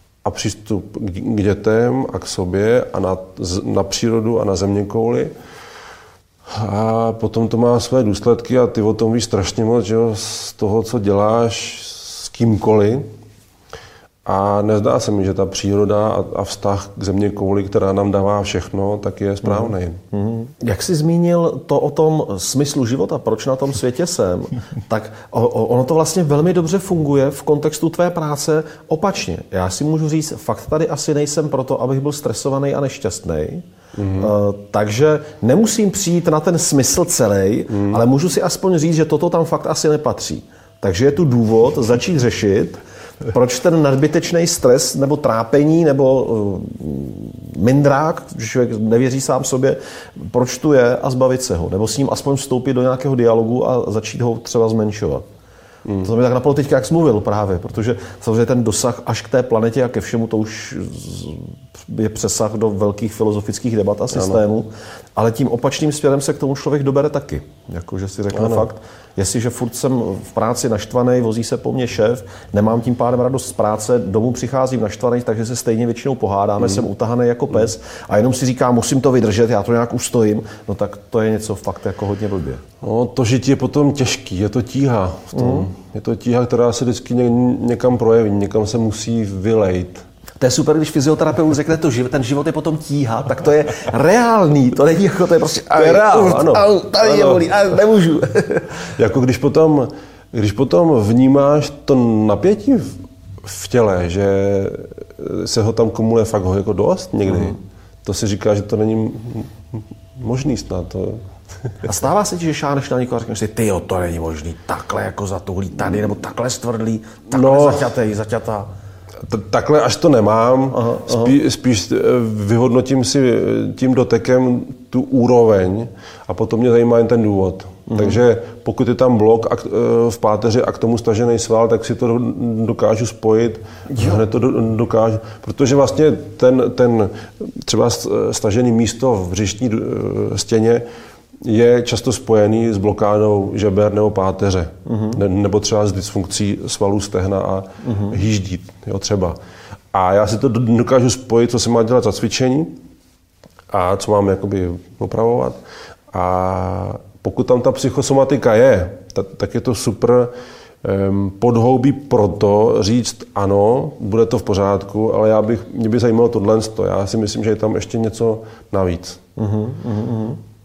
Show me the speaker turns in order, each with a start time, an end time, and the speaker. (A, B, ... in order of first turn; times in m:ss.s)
0:00.2-0:05.3 A
0:06.4-0:13.1 A
0:14.2-0:20.0 A
0:19.4-0:55.2 B
0:33.9-0:34.3 A
0:37.7-0:38.0 A
0:56.0-1:22.6 B
1:04.1-1:04.4 A
1:08.3-1:08.7 A
1:22.8-1:30.0 A
1:25.3-1:25.7 B
1:30.4-1:38.9 B
1:35.7-1:37.5 A
1:39.0-1:51.2 A
1:51.8-1:58.7 B
1:57.3-1:57.9 A
1:59.2-2:20.8 A
2:00.7-2:01.4 B
2:07.9-2:08.2 B
2:13.9-2:14.2 B
2:21.4-2:29.4 A
2:24.8-2:25.2 B
2:27.8-2:28.2 B
2:29.9-2:32.7 A
2:33.7-2:40.3 A
2:40.8-2:49.2 A
2:49.4-2:50.4 B